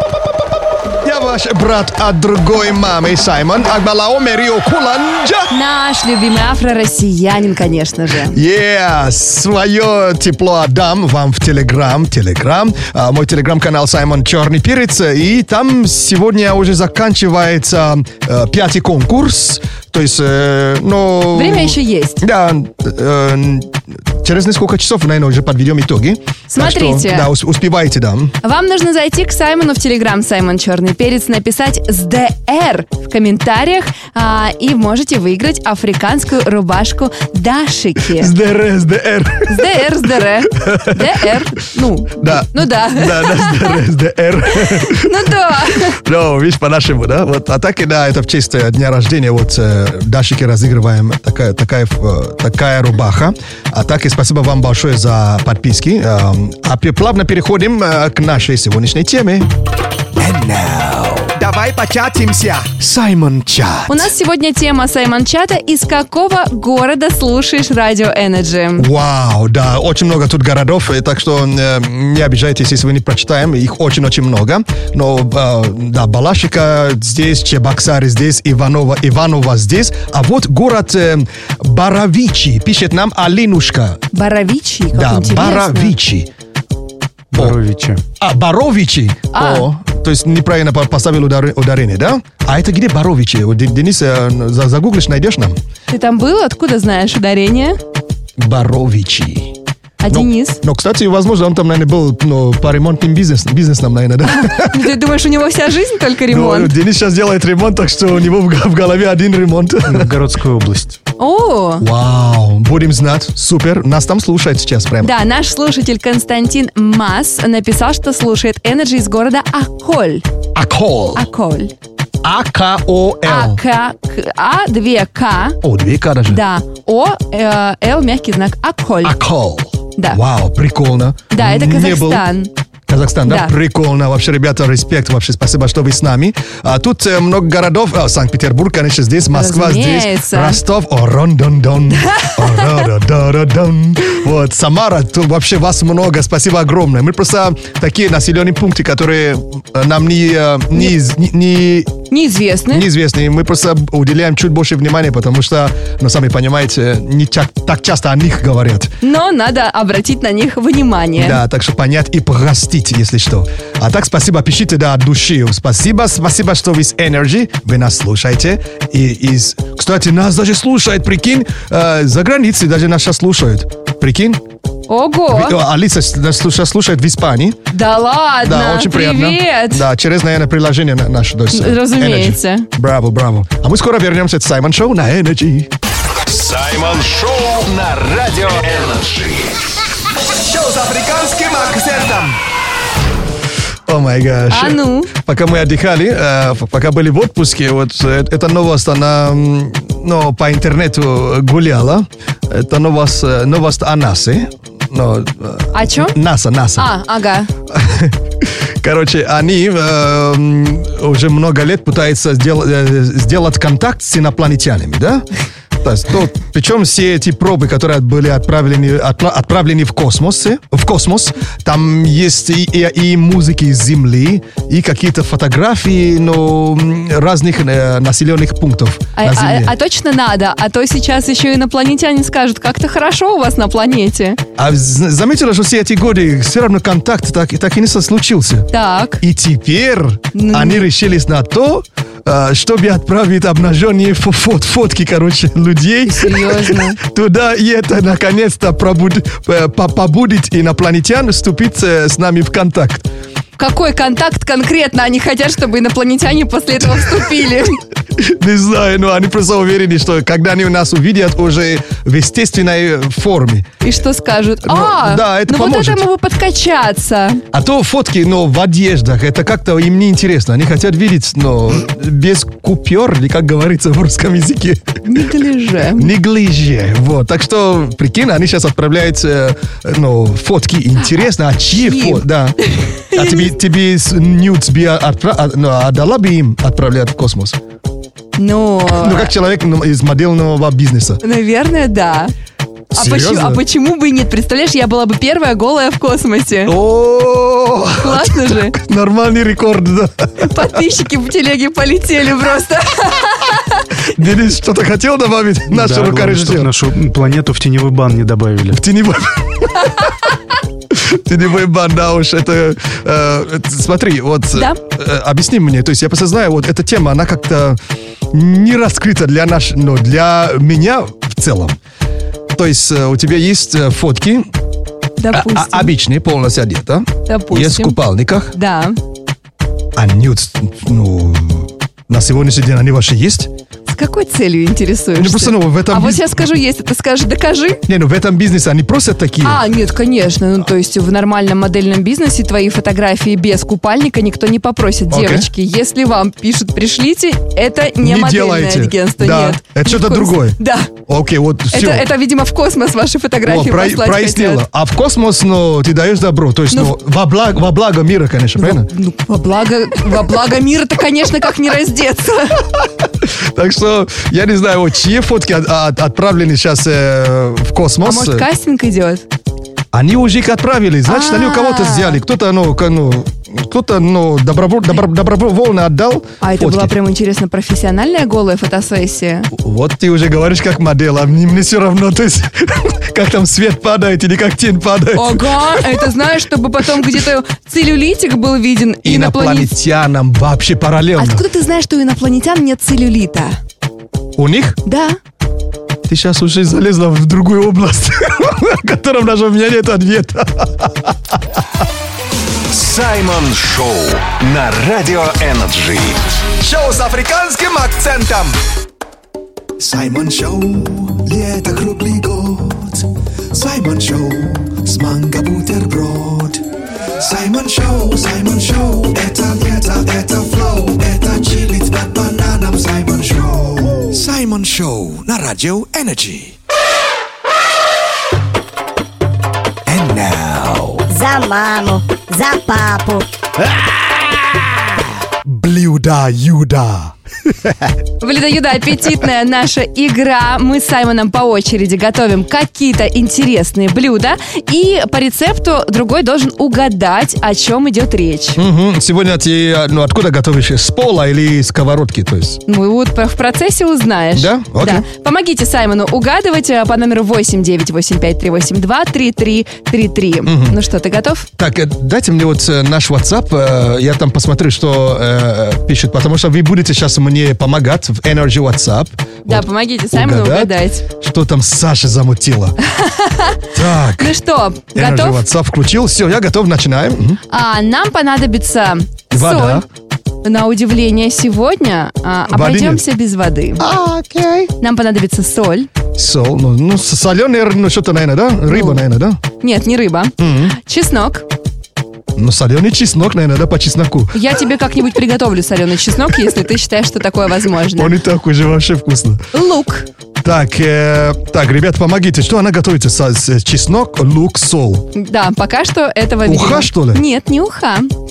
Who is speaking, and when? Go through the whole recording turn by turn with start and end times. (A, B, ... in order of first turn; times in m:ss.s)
0:01.0-0:05.5 A
0:05.5-0:08.4 B
0:08.3-0:28.3 A
0:21.3-0:22.2 B
0:26.5-0:27.3 B
0:28.4-0:38.3 B
0:38.1-0:39.9 A
0:39.5-0:43.8 B
0:40.5-0:41.2 A
0:42.2-0:59.5 A
0:44.6-0:46.0 B
1:00.2-1:01.4 C
1:01.4-1:02.7 D
1:02.7-1:04.1 C
1:03.9-1:08.9 B
1:08.8-1:24.0 A
1:24.1-1:26.0 B
1:24.9-1:26.3 A
1:27.3-1:28.0 E
1:28.2-1:35.6 A
1:29.3-1:29.7 B
1:35.9-1:37.8 B
1:38.4-1:39.6 A
1:40.0-1:40.6 B
1:40.1-1:45.0 A
1:44.2-1:46.7 B
1:46.3-1:50.1 A
1:49.9-1:51.0 E
1:51.2-1:51.8 B
1:51.8-1:55.2 A
1:55.0-2:00.2 B
2:00.6-2:01.2 A
2:01.2-2:01.7 B
2:02.2-2:03.6 A
2:03.2-2:05.6 B
2:05.6-2:06.4 A
2:06.3-2:09.2 B
2:09.0-2:12.3 A
2:11.3-2:12.5 B
2:12.9-2:31.9 A
2:13.3-2:13.5 B
2:19.3-2:20.6 B
2:22.0-2:22.8 B
2:32.1-2:32.9 B
2:32.7-2:39.0 A
2:39.0-2:41.4 B
2:41.2-2:54.4 A
2:54.9-2:55.6 B
2:55.3-2:57.6 A
2:57.7-2:59.8 B
2:58.4-3:05.7 A
3:01.5-3:02.7 B
3:06.3-3:09.6 F
3:10.4-3:12.4 D
3:13.9-3:26.9 A
3:14.5-3:15.1 B
3:25.7-3:26.2 B
3:26.8-3:27.5 B
3:27.7-3:35.3 A
3:35.8-3:49.7 A
3:49.2-3:54.4 B
3:54.6-4:13.1 A
3:58.7-3:59.2 B
4:00.4-4:00.9 B
4:06.1-4:07.0 B
4:13.6-4:17.8 B
4:16.9-4:17.4 A
4:18.2-4:23.7 A
4:23.8-4:27.4 B
4:24.6-4:26.0 A
4:27.5-4:35.0 A
4:35.0-4:36.1 B
4:36.0-4:42.6 A
4:41.1-4:43.5 B
4:43.1-4:47.6 A
4:48.4-4:49.3 B
4:48.9-4:51.2 A
4:51.2-4:52.3 B
4:52.9-4:53.6 A
4:52.9-4:56.8 B
4:56.7-5:00.5 A
4:58.0-4:58.8 B
5:00.4-5:03.9 B
5:04.1-5:06.7 A
5:05.7-5:08.8 E
5:08.7-5:10.0 A
5:10.9-5:17.8 A
5:14.5-5:14.8 B
5:18.3-5:21.8 A
5:22.6-5:24.5 A
5:25.2-5:25.9 B
5:25.3-5:28.5 A
5:27.3-5:28.0 B
5:28.5-5:29.0 B
5:30.0-5:33.5 A
5:33.9-5:37.8 B
5:35.2-5:36.5 A
5:37.9-5:39.7 A
5:39.4-5:50.9 B
5:45.1-5:45.5 A
5:48.0-5:52.1 A
5:51.7-5:54.6 B
5:53.4-5:58.9 A
5:58.6-6:02.6 B
6:03.2-6:08.5 A
6:08.0-6:09.3 B
6:09.9-6:16.9 A
6:11.1-6:12.2 B
6:16.4-6:19.5 B
6:19.5-6:26.1 A
6:25.1-6:29.7 B
6:29.0-6:31.4 A
6:31.2-6:33.6 B
6:34.4-6:34.8 A
6:34.9-6:35.2 B
6:36.1-6:41.4 A
6:42.7-6:46.2 F
6:46.6-6:48.5 C
6:49.8-6:56.6 C
6:57.2-7:06.6 C
7:09.9-7:11.0 C
7:11.1-7:13.2 G
7:15.5-7:17.1 C
7:18.2-7:28.6 B
7:28.6-7:32.6 A
7:32.7-7:41.5 B
7:34.3-7:35.1 A
7:40.5-7:40.8 A
7:41.6-7:52.8 A
7:49.5-7:51.0 B
7:52.9-7:53.6 B
7:53.7-7:54.4 A
7:54.2-7:55.4 B
7:54.9-7:57.4 A
7:57.5-7:59.8 B
7:59.3-7:59.9 A
8:00.4-8:03.8 B
8:02.5-8:03.0 A
8:03.8-8:04.7 A
8:04.8-8:05.9 B
8:06.2-8:09.4 A
8:08.7-8:09.0 B
8:09.6-8:11.4 B
8:10.4-8:10.8 A
8:12.4-8:14.4 A
8:14.3-8:18.2 B
8:17.9-8:19.4 A
8:19.5-8:20.1 B
8:20.4-8:25.1 A
8:25.2-8:28.1 B
8:26.4-8:27.2 A